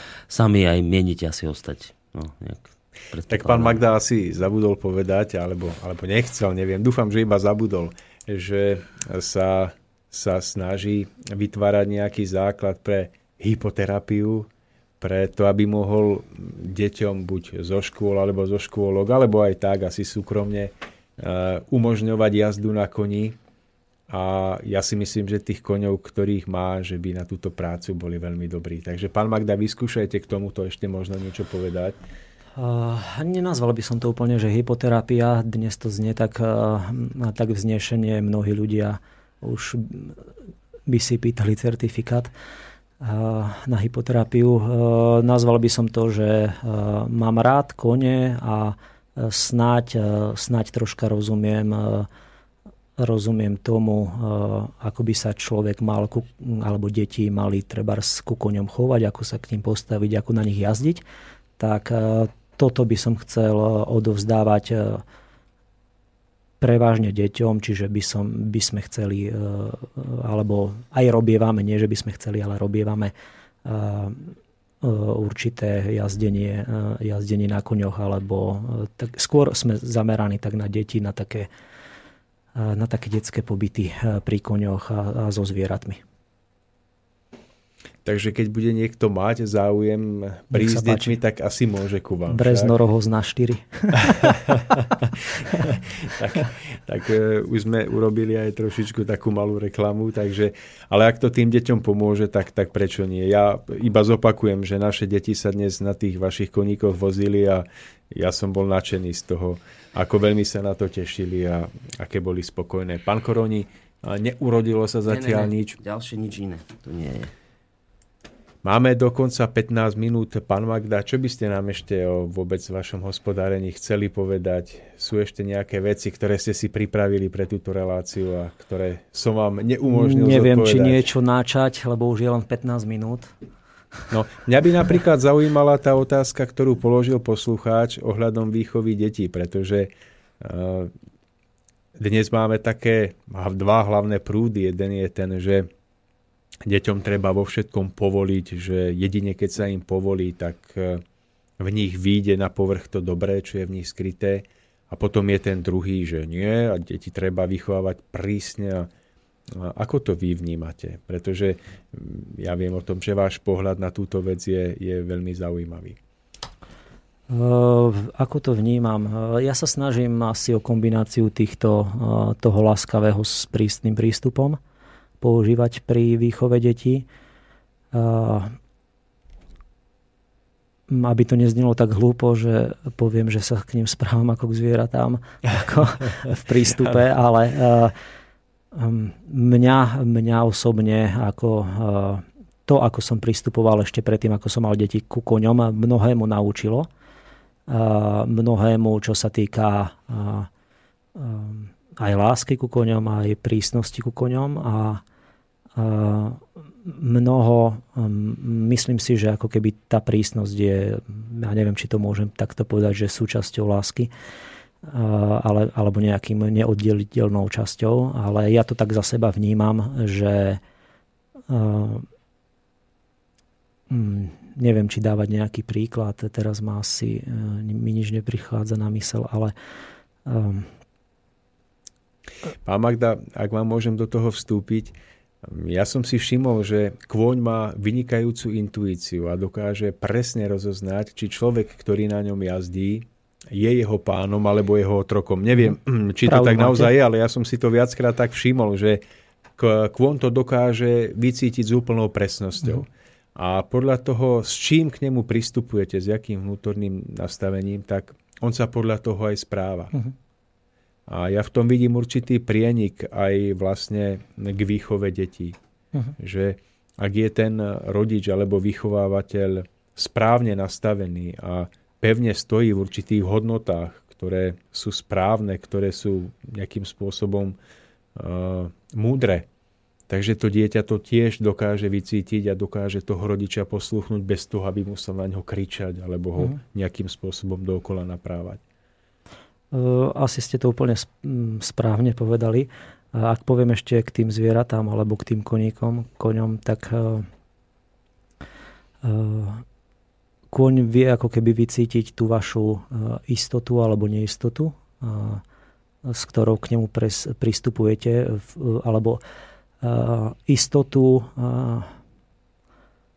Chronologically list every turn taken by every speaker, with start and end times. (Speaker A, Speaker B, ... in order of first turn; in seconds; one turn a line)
Speaker A: 0.3-3.8
Speaker B: 3.3-14.5
Speaker B: 15.0-23.4
Speaker B: 24.1-32.0
Speaker C: 32.6-40.2
Speaker C: 40.9-42.3
Speaker C: 43.0-52.1
Speaker C: 53.0-61.0
Speaker C: 61.6-65.0
Speaker C: 66.6-73.1
Speaker C: 73.7-81.5
Speaker C: 82.5-86.0
Speaker B: 88.0-92.7
Speaker C: 90.5-91.2
Speaker C: 92.3-94.4
Speaker B: 94.1-115.8
Speaker A: 115.1-117.3
Speaker B: 118.6-131.1
Speaker C: 129.9-133.3
Speaker B: 134.1-140.9
Speaker B: 142.0-145.7
Speaker B: 146.7-151.0
Speaker B: 151.6-158.9
Speaker B: 159.5-166.0
Speaker C: 167.3-174.6
Speaker C: 175.2-177.1
Speaker C: 177.9-178.6
Speaker C: 180.9-187.9
Speaker C: 188.7-196.9
Speaker C: 197.7-200.5
Speaker C: 201.2-205.0
Speaker C: 205.8-214.1
Speaker C: 214.8-220.6
Speaker C: 221.5-222.1
Speaker C: 223.9-229.5
Speaker C: 230.3-230.7
Speaker B: 232.7-249.0
Speaker C: 246.2-246.9
Speaker B: 249.6-259.9
Speaker B: 261.1-265.6
Speaker B: 266.2-277.6
Speaker B: 278.1-279.5
Speaker B: 280.1-288.6
Speaker C: 289.7-297.3
Speaker C: 299.0-299.6
Speaker C: 300.5-305.4
Speaker C: 306.1-309.2
Speaker C: 309.8-311.9